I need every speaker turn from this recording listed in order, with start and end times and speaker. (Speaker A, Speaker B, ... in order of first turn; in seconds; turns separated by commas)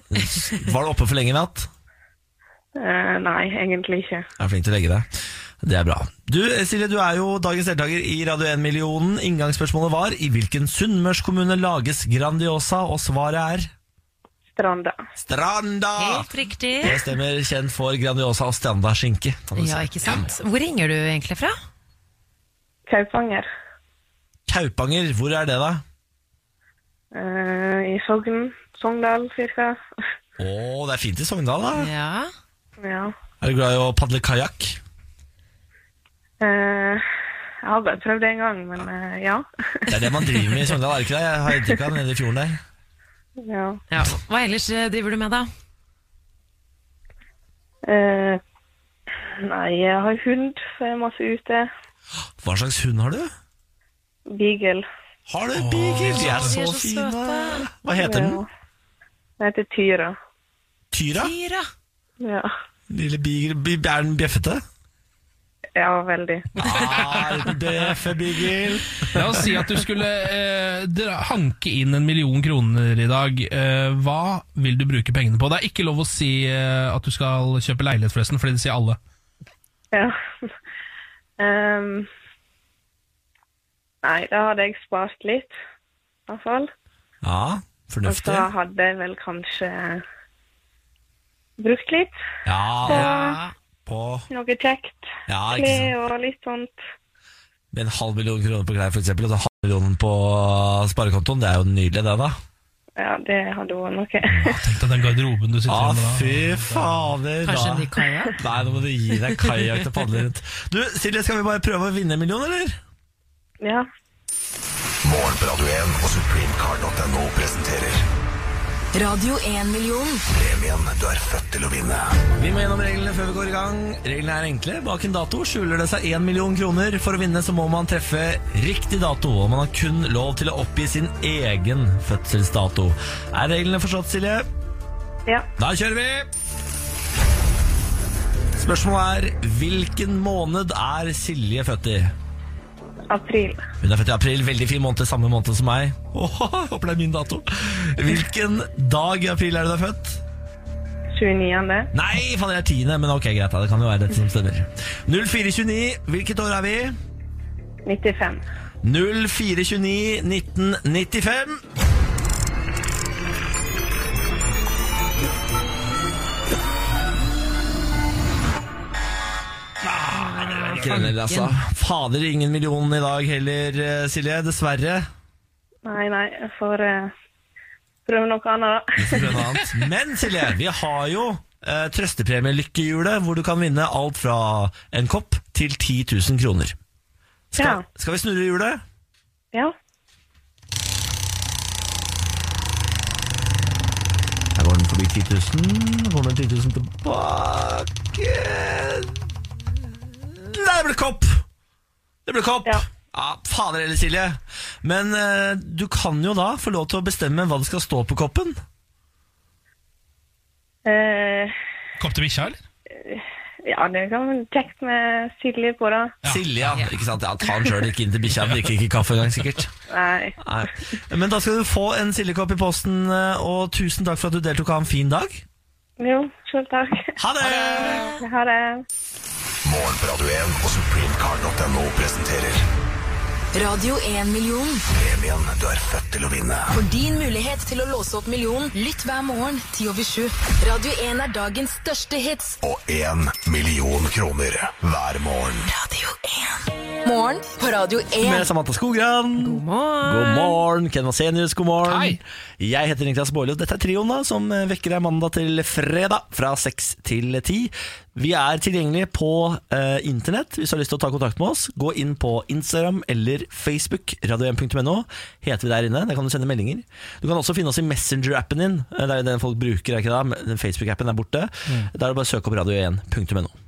Speaker A: 0.1-1.7, Speaker B: 2.8-4.3, Speaker A: 4.4-5.1, Speaker A: 5.6-13.7, Speaker B: 14.5-15.0, Speaker A: 15.2-16.3, Speaker C: 16.0-17.0, Speaker A: 16.8-20.3, Speaker C: 19.6-21.6, Speaker B: 22.9-23.5, Speaker A: 24.5-25.8, Speaker B: 27.1-29.8, Speaker A: 30.4-31.9, Speaker C: 31.8-32.3, Speaker B: 32.8-33.1, Speaker A: 33.4-34.8, Speaker B: 36.4-37.0, Speaker B: 37.6-39.9, Speaker A: 39.9-42.6, Speaker B: 43.4-43.8, Speaker C: 43.9-45.5, Speaker B: 47.9-48.4, Speaker B: 49.2-51.7, Speaker A: 52.4-53.3, Speaker B: 54.3-54.9, Speaker A: 55.3-58.4, Speaker D: 55.5-56.5, Speaker C: 56.0-57.7, Speaker B: 58.0-58.5, Speaker B: 59.4-60.2, Speaker A: 60.9-61.3, Speaker C: 61.1-61.7, Speaker B: 62.2-62.5, Speaker A: 62.9-64.6, Speaker B: 65.8-66.5, Speaker A: 66.6-69.5, Speaker D: 66.6-67.5, Speaker D: 69.1-79.0, Speaker B: 79.9-80.5, Speaker B: 81.4-82.1, Speaker B: 84.0-85.5, Speaker B: 86.3-86.7, Speaker A: 87.2-88.5, Speaker B: 88.0-90.0, Speaker B: 91.6-92.1, Speaker A: 92.5-93.1, Speaker B: 92.9-93.4, Speaker C: 92.9-93.5, Speaker A: 93.9-94.3, Speaker B: 94.3-96.8, Speaker A: 95.3-95.9, Speaker A: 97.7-102.4, Speaker B: 103.0-104.6, Speaker D: 104.4-107.1, Speaker A: 105.7-112.8, Speaker C: 107.4-108.4, Speaker B: 113.6-113.9, Speaker E: 115.0-118.0, Speaker F: 118.9-120.2, Speaker E: 120.3-122.2, Speaker A: 122.4-134.5, Speaker A: 135.6-136.3, Speaker A: 138.6-142.1, Speaker B: 143.1-143.6, Speaker A: 143.8-150.2, Speaker B: 151.1-151.9, Speaker A: 151.9-157.0, Speaker B: 157.9-158.4, Speaker A: 158.8-161.6, Speaker A: 169.9-175.1, Speaker C: 170.2-171.5, Speaker D: 170.7-171.1, Speaker B: 175.9-177.1, Speaker B: 178.1-179.4, Speaker A: 179.0-186.8, Speaker A: 187.6-188.8, Speaker B: 187.6-187.8, Speaker A: 194.6-199.2, Speaker A: 200.3-201.4, Speaker A: 202.3-208.6, Speaker B: 210.8-211.6, Speaker D: 212.0-212.6, Speaker B: 213.0-216.2, Speaker D: 216.2-216.8, Speaker A: 216.2-219.7, Speaker D: 218.4-218.7, Speaker B: 219.9-220.7, Speaker A: 220.4-225.4, Speaker B: 226.0-227.1, Speaker A: 227.2-228.1, Speaker C: 227.6-228.2, Speaker B: 228.2-228.8, Speaker E: 229.6-232.6, Speaker F: 233.5-234.8, Speaker E: 235.0-236.8, Speaker F: 236.7-242.6, Speaker E: 242.6-245.7, Speaker F: 245.7-248.5, Speaker A: 248.2-273.5, Speaker C: 249.4-250.6, Speaker D: 251.9-252.2